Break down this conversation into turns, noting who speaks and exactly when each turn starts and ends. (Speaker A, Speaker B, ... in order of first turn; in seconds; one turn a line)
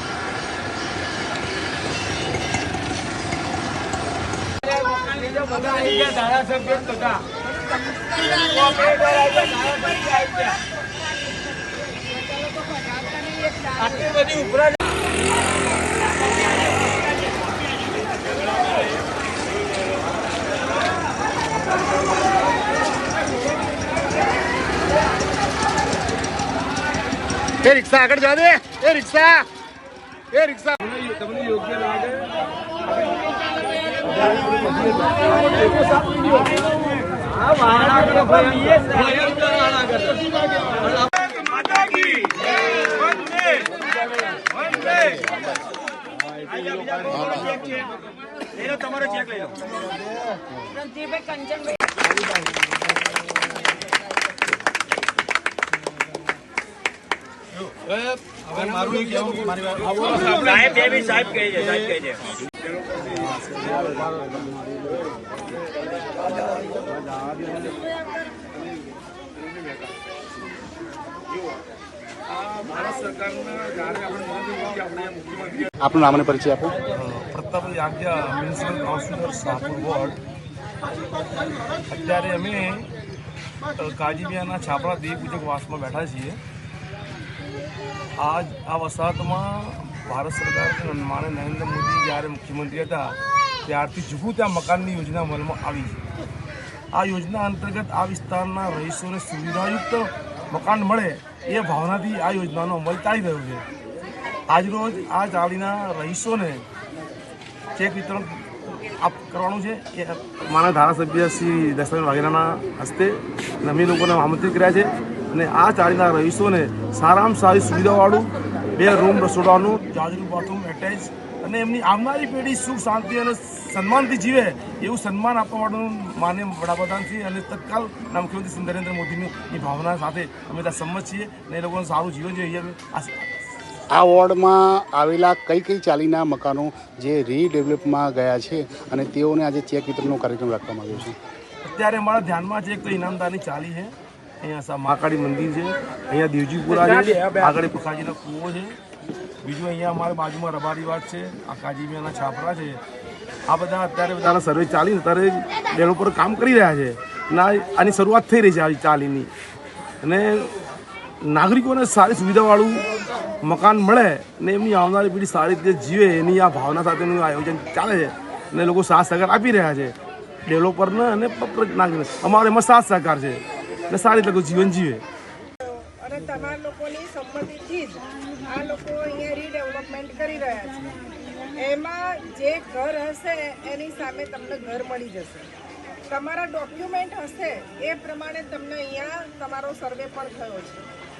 Speaker A: 4.7-7.2
Speaker B: 7.7-10.6
Speaker A: 8.5-10.5
Speaker B: 12.1-14.0
Speaker A: 13.9-14.7
Speaker C: 27.6-29.5
Speaker C: 30.3-30.8
Speaker D: 31.1-32.1
Speaker A: 35.6-36.5
Speaker A: 37.4-40.2
Speaker A: 41.6-42.3
Speaker A: 42.9-43.7
Speaker A: 44.7-45.2
Speaker A: 46.5-47.8
Speaker A: 48.6-49.6
Speaker A: 50.7-51.8
Speaker A: 58.5-62.2
Speaker D: 58.8-59.4
Speaker D: 59.9-60.6
Speaker D: 72.4-75.6
Speaker C: 75.8-76.8
Speaker D: 76.9-80.2
Speaker D: 81.9-82.9
Speaker D: 83.8-86.4
Speaker D: 88.2-96.0
Speaker D: 96.9-103.6
Speaker D: 104.5-106.7
Speaker D: 107.8-108.4
Speaker D: 109.0-133.2
Speaker C: 133.9-141.2
Speaker D: 141.7-148.7
Speaker D: 149.4-152.8
Speaker D: 153.5-159.3
Speaker D: 160.0-160.5
Speaker D: 161.2-162.8
Speaker D: 163.4-169.9
Speaker D: 170.5-175.0
Speaker B: 175.6-181.0
Speaker B: 181.5-185.5
Speaker B: 186.1-190.8